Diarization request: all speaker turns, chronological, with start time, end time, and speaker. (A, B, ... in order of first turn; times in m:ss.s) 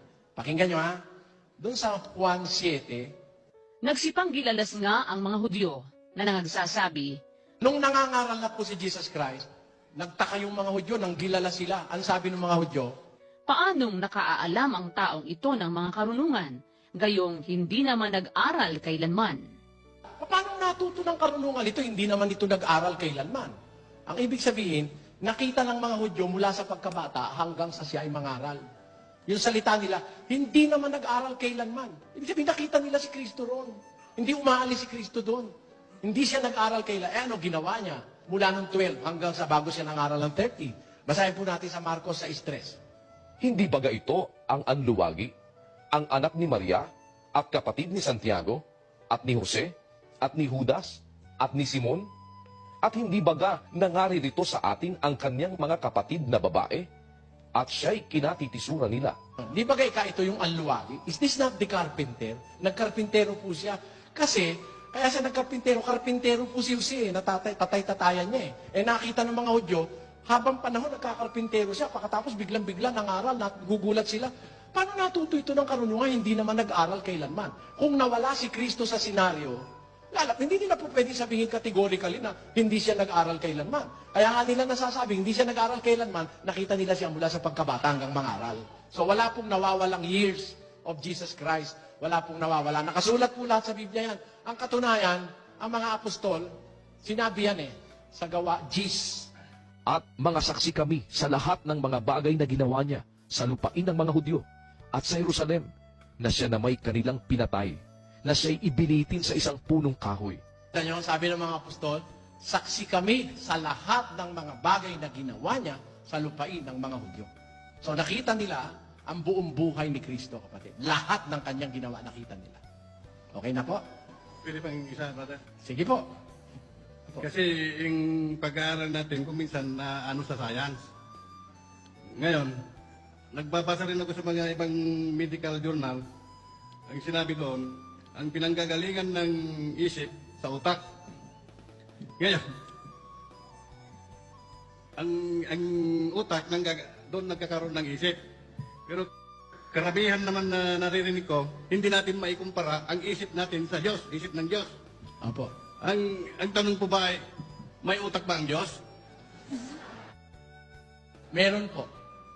0:00.4-0:01.0 A
0:01.6-0:03.1 A
0:03.8-0:07.1 B
0:07.6-0:09.4 A
0:10.0-0:12.9 A
0:13.5-0:19.4 B
0:20.2-0:23.5 A
0:24.1-0:28.6 A
0:29.3-0:35.5 A
0:36.0-0:42.8 A
0:43.4-0:45.3 C
0:45.9-0:52.1 C
0:52.8-0:56.9 C
0:57.5-0:59.2 C
0:59.4-1:19.6 A
1:20.1-1:36.5 A
1:37.0-1:39.3 A
1:39.9-1:50.4 C
1:50.7-1:57.3 A
1:57.8-2:02.6 A
2:03.3-2:03.8 A
2:04.4-2:05.4 D
2:05.6-2:06.0 A
2:07.2-2:10.8 D
2:12.2-2:12.6 D
2:13.3-2:16.0 D
2:16.9-2:20.8 D
2:22.2-2:22.4 D
2:25.0-2:28.2 D
2:29.7-2:34.7 D
2:35.2-2:35.5 A
2:35.8-2:37.2 D
2:37.8-2:38.8 D
2:41.3-2:41.9 A